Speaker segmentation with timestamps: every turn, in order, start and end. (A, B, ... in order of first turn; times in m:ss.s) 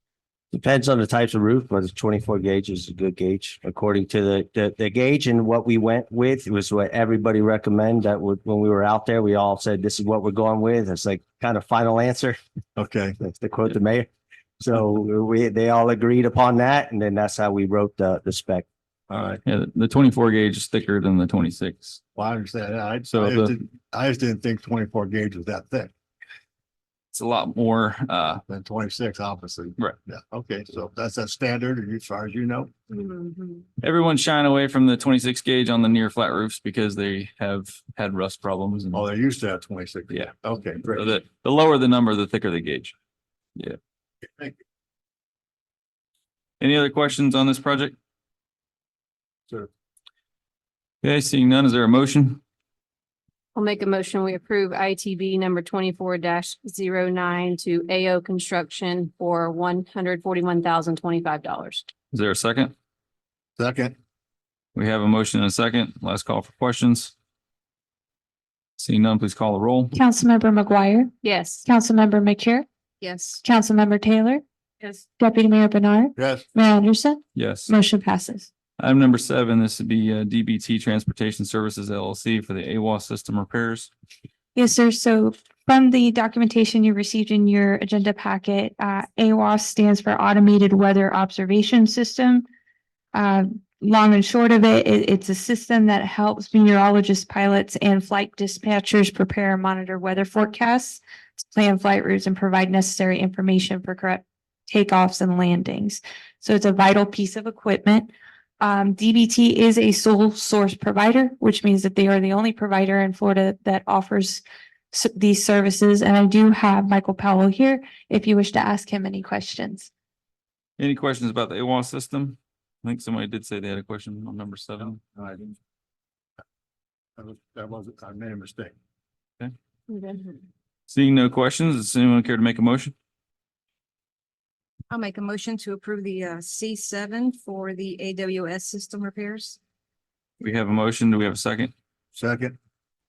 0:00.5-0:12.4 A
0:12.8-0:13.2 B
0:13.2-0:14.1 A
0:14.6-0:18.6 A
0:19.1-0:19.4 B
0:19.4-0:22.0 C
0:22.1-0:25.9 B
0:23.1-0:23.5 C
0:27.1-0:28.4 C
0:28.5-0:32.7 B
0:32.9-0:33.6 D
0:33.8-0:39.0 C
0:38.9-0:41.2 B
0:40.9-0:42.9 C
0:46.6-0:47.9 C
0:51.0-0:52.4 C
0:53.5-1:01.8 D
1:02.1-1:02.7 C
1:03.6-1:04.0 B
1:04.7-1:07.1 C
1:08.8-1:09.9 C
1:09.9-1:11.1 E
1:11.2-1:11.6 D
1:11.6-1:12.6 E
1:13.0-1:13.4 D
1:13.4-1:14.4 E
1:15.2-1:18.5 E
1:16.2-1:16.4 B
1:17.3-1:17.7 C
1:18.8-1:23.9 C
1:24.6-1:32.4 E
1:33.1-1:59.9 E
2:00.8-2:05.0 C
2:07.2-2:08.7 B
2:09.9-2:10.3 D
2:10.9-2:12.9 C
2:14.9-2:19.6 F
2:20.4-2:21.7 C
2:22.1-2:22.6 B